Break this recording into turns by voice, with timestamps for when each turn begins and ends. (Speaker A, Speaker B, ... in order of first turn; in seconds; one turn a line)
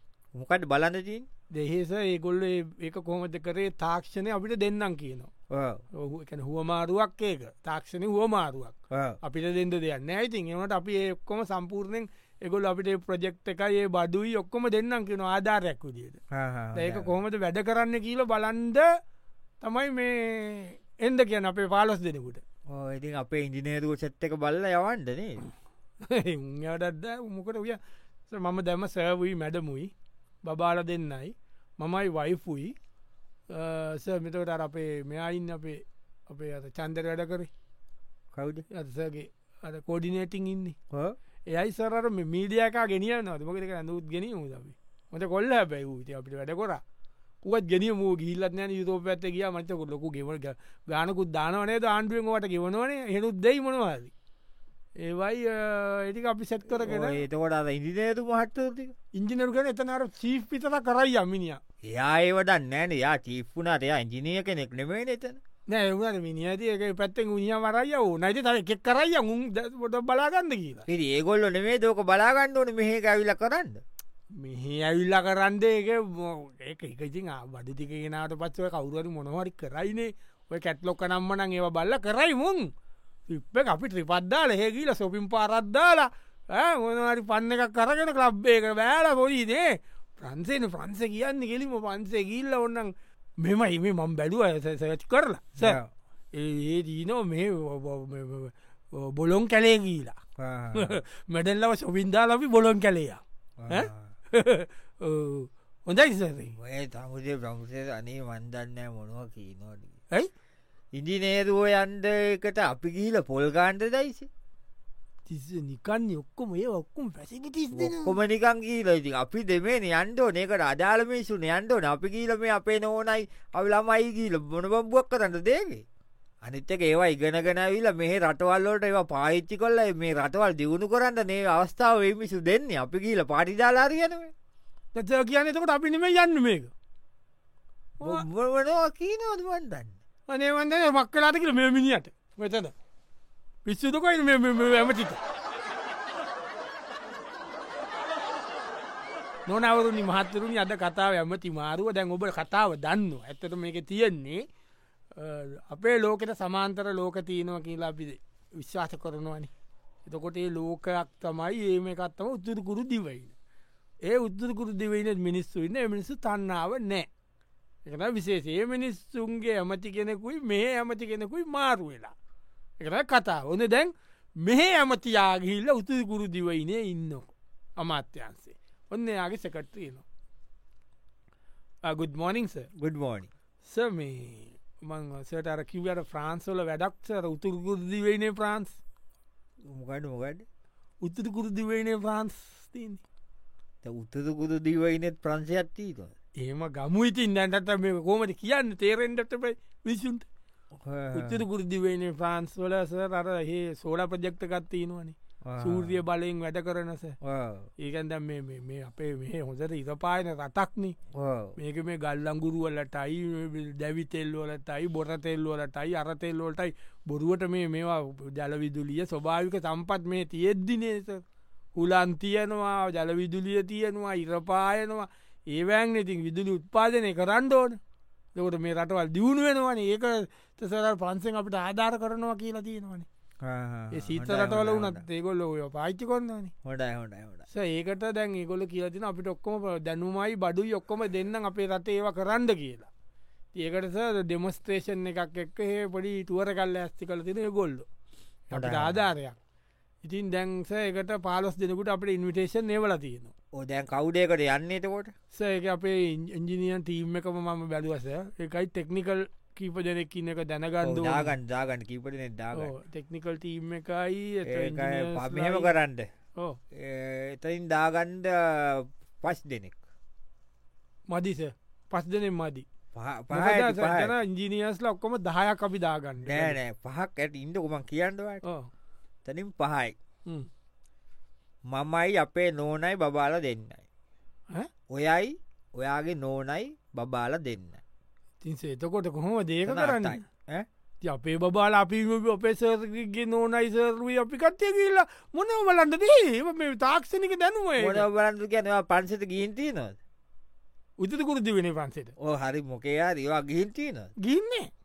Speaker A: 0.3-1.3
Speaker B: 1.5-5.3
Speaker A: 5.5-5.8
Speaker B: 5.9-16.2
Speaker A: 8.9-9.2
Speaker A: 16.3-17.1
Speaker B: 16.8-18.9
Speaker B: 19.6-22.4
Speaker A: 22.7-25.4
Speaker B: 26.0-29.9
Speaker B: 30.4-32.8
Speaker B: 33.5-37.5
Speaker A: 38.3-38.6
Speaker B: 38.7-40.8
Speaker A: 40.9-41.2
Speaker B: 41.5-46.8
Speaker B: 47.4-54.1
Speaker B: 55.0-57.2
Speaker A: 56.8-58.9
Speaker B: 59.1-61.6
Speaker A: 61.9-65.4
Speaker B: 65.7-70.9
Speaker A: 70.9-73.8
Speaker B: 74.3-82.7
Speaker B: 83.3-95.8
Speaker A: 95.6-95.9
Speaker B: 96.3-100.2
Speaker A: 100.4-101.0
Speaker B: 100.7-106.5
Speaker A: 103.6-104.1
Speaker A: 106.5-110.0
Speaker A: 110.9-114.3
Speaker B: 115.3-118.2
Speaker A: 117.7-125.8
Speaker A: 126.4-134.3
Speaker B: 134.9-136.7
Speaker A: 138.0-140.0
Speaker B: 140.3-142.7
Speaker B: 143.7-145.2
Speaker B: 149.5-154.4
Speaker B: 155.2-159.5
Speaker B: 160.1-163.3
Speaker B: 164.1-167.1
Speaker B: 167.9-172.1
Speaker B: 172.8-180.1
Speaker B: 181.8-182.7
Speaker A: 182.8-183.3
Speaker B: 183.7-188.8
Speaker A: 189.6-190.4
Speaker B: 191.0-193.0
Speaker A: 193.8-196.1
Speaker B: 196.4-200.3
Speaker A: 200.8-201.4
Speaker B: 201.1-207.2
Speaker A: 205.4-206.0
Speaker A: 207.2-207.7
Speaker B: 207.8-211.0
Speaker A: 211.1-211.6
Speaker B: 211.6-221.2
Speaker B: 221.8-227.8
Speaker B: 228.3-233.1
Speaker A: 233.4-235.0
Speaker B: 233.9-236.5
Speaker A: 236.7-237.4
Speaker B: 237.5-242.9
Speaker B: 243.6-247.9
Speaker B: 248.5-249.4
Speaker A: 248.5-249.0
Speaker B: 250.0-253.3
Speaker A: 253.6-255.1
Speaker B: 255.3-261.4
Speaker A: 260.8-262.7
Speaker B: 262.5-265.7
Speaker A: 264.4-266.1
Speaker A: 266.7-269.8
Speaker B: 271.1-272.7
Speaker A: 272.9-274.1
Speaker B: 273.3-276.6
Speaker A: 276.2-278.4
Speaker B: 278.4-278.7
Speaker A: 279.2-279.9
Speaker A: 281.7-283.9
Speaker A: 284.9-287.8
Speaker B: 288.4-290.2
Speaker A: 289.6-290.7
Speaker B: 291.0-298.1
Speaker A: 297.8-300.0
Speaker B: 301.0-302.1
Speaker A: 302.2-304.1
Speaker B: 304.2-304.7